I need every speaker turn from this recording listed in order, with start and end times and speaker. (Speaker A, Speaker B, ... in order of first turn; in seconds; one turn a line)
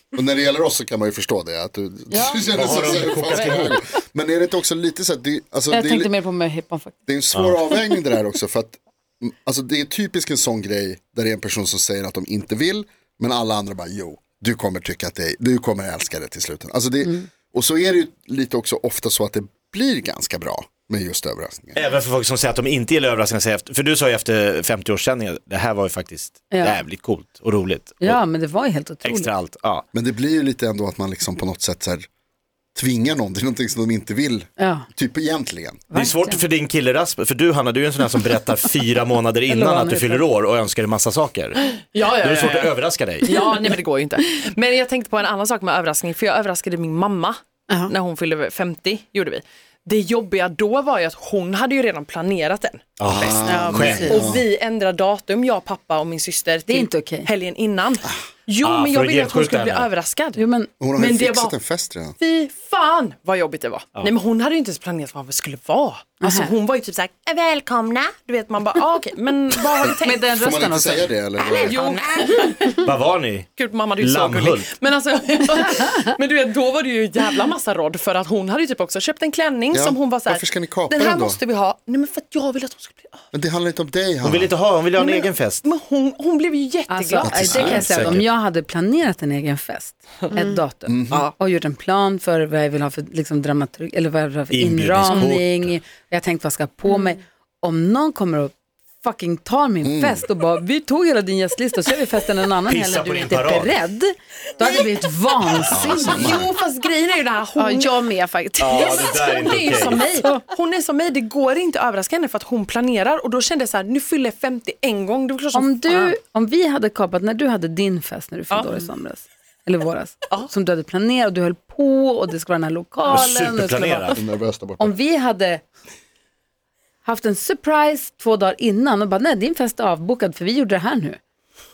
Speaker A: 0.1-6.1
Speaker B: 2.1-4.0
Speaker C: 2.5-3.7
Speaker B: 5.7-7.0
Speaker A: 7.1-21.8
Speaker C: 21.7-28.2
Speaker B: 26.5-26.8
Speaker B: 28.0-29.3
Speaker C: 29.0-29.8
Speaker A: 29.9-32.1
Speaker A: 32.7-35.8
Speaker B: 34.6-34.9
Speaker B: 35.9-36.4
Speaker C: 35.9-43.4
Speaker B: 39.5-40.2
Speaker D: 41.9-53.4
Speaker C: 53.0-54.1
Speaker A: 53.1-54.4
Speaker E: 53.4-54.2
Speaker D: 54.0-60.4
Speaker B: 56.7-57.3
Speaker C: 58.6-59.9
Speaker B: 60.4-60.7
Speaker A: 60.8-62.1
Speaker D: 61.0-61.5
Speaker D: 62.2-70.3
Speaker B: 66.2-66.5
Speaker B: 70.0-71.1
Speaker A: 70.3-71.8
Speaker D: 71.5-72.8
Speaker C: 72.7-74.7
Speaker D: 73.5-83.2
Speaker A: 79.7-81.4
Speaker A: 83.3-84.5
Speaker C: 84.2-85.6
Speaker D: 85.0-87.7
Speaker B: 86.9-106.3
Speaker A: 87.2-88.2
Speaker C: 87.5-88.2
Speaker A: 90.9-91.3
Speaker C: 94.5-95.7
Speaker A: 99.8-100.2
Speaker C: 102.7-103.8
Speaker A: 105.7-106.5
Speaker D: 105.8-108.0
Speaker E: 107.5-109.1
Speaker C: 108.6-110.0
Speaker D: 108.7-116.1
Speaker B: 115.5-124.2
Speaker D: 118.5-118.9
Speaker C: 123.1-124.2
Speaker A: 124.1-124.9
Speaker B: 124.8-125.6
Speaker B: 127.0-131.2